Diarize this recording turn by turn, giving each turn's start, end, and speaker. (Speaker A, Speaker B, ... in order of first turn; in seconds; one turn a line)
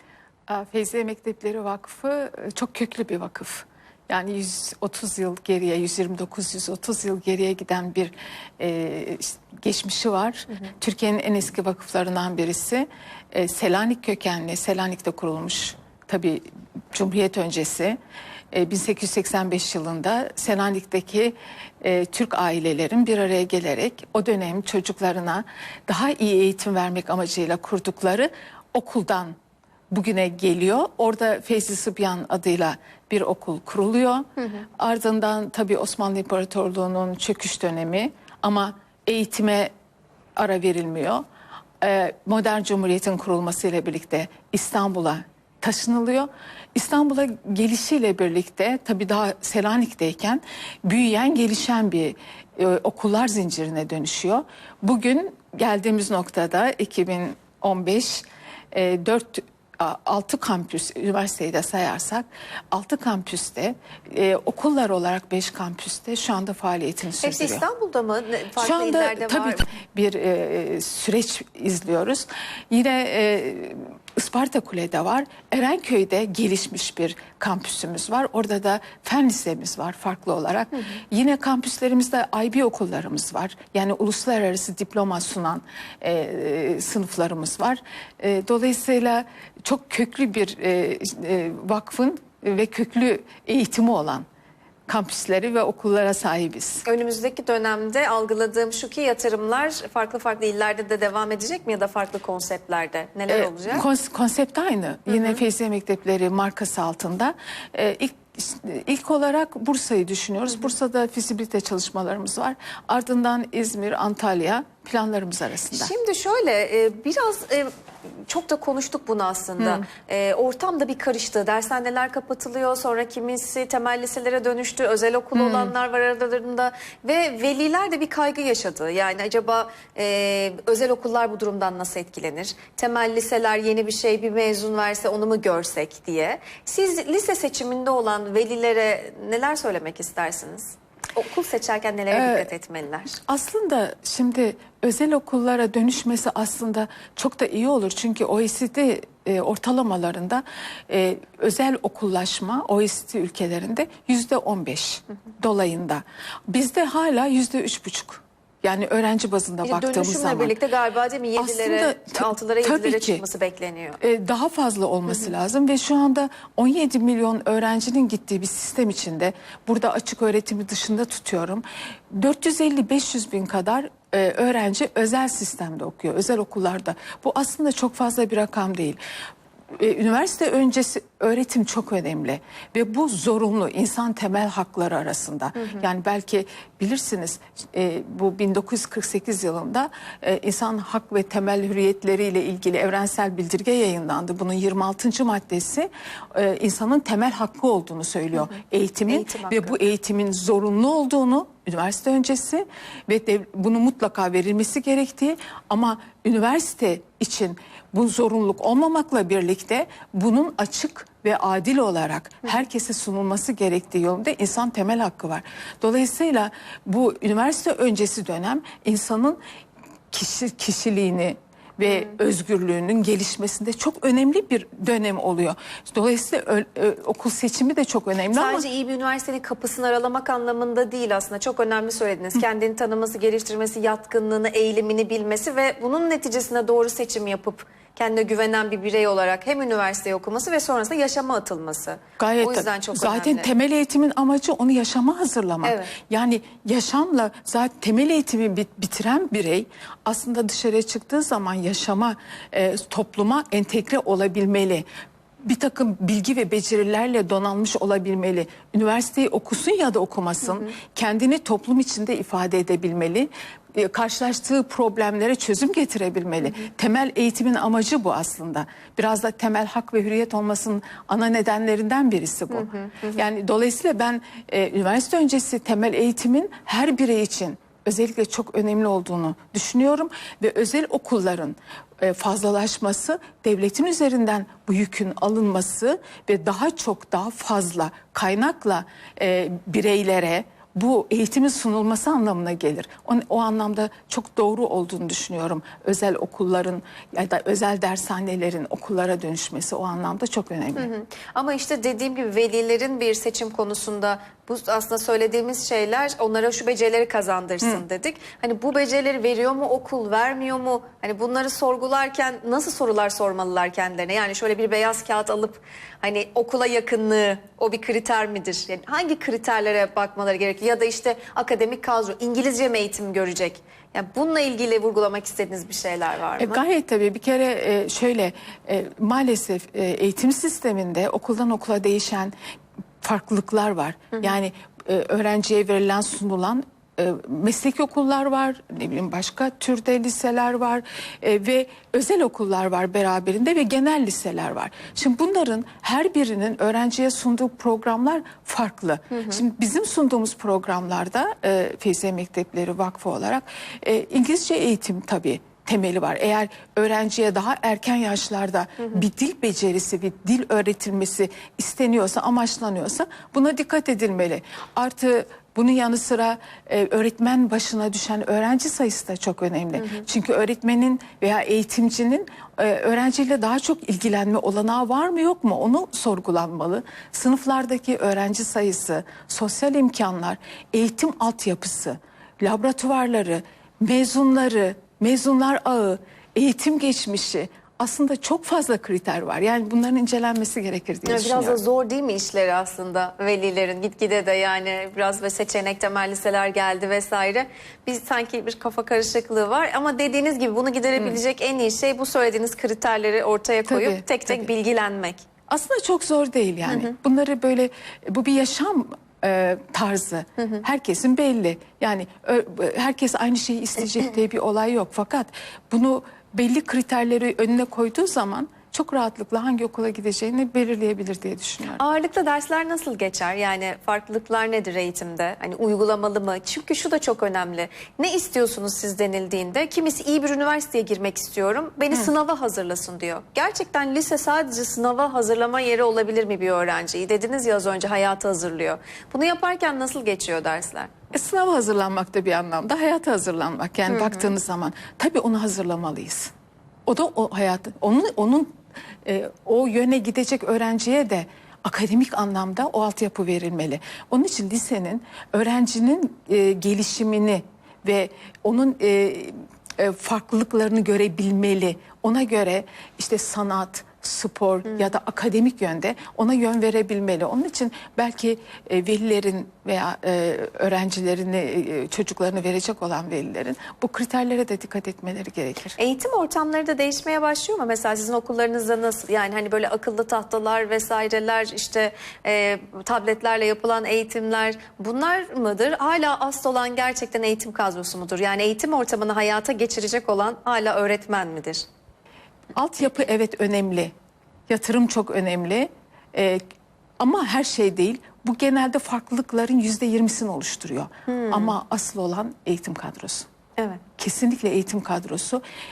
Speaker A: 0.5-18.0
Speaker A: 18.5-29.4
Speaker A: 29.9-34.2
Speaker B: 34.4-34.6
Speaker A: 34.8-39.7
Speaker A: 40.4-41.2
Speaker A: 41.8-67.6
Speaker B: 67.2-69.7
Speaker A: 68.6-94.2
Speaker A: 94.9-96.8
Speaker B: 96.8-103.8
Speaker A: 103.3-115.9
Speaker B: 105.1-105.4
Speaker B: 115.7-117.7
Speaker B: 118.2-143.2
Speaker A: 119.6-119.8
Speaker A: 125.3-125.7
Speaker A: 142.1-142.5
Speaker A: 143.2-160.6
Speaker B: 159.6-164.0
Speaker A: 161.4-163.2
Speaker A: 164.0-179.0
Speaker A: 179.7-219.4
Speaker B: 199.1-199.8
Speaker A: 220.1-228.7
Speaker B: 221.8-222.1
Speaker B: 228.3-243.5
Speaker A: 242.2-254.8
Speaker B: 245.6-245.9
Speaker A: 255.4-300.9
Speaker B: 272.5-273.2
Speaker B: 300.8-326.6
Speaker A: 326.4-332.3
Speaker A: 333.0-391.6
Speaker B: 349.1-349.4
Speaker B: 369.8-370.1
Speaker B: 391.1-405.2
Speaker A: 403.6-404.5
Speaker A: 405.5-421.8
Speaker B: 406.6-406.9
Speaker B: 421.8-440.9
Speaker A: 441.1-446.3
Speaker B: 443.9-444.3
Speaker A: 446.9-448.5
Speaker A: 449.0-475.8
Speaker B: 475.8-491.6
Speaker A: 492.5-493.9
Speaker A: 494.5-496.4
Speaker A: 497.0-503.3
Speaker B: 501.1-501.6
Speaker B: 503.6-503.8
Speaker A: 504.0-505.4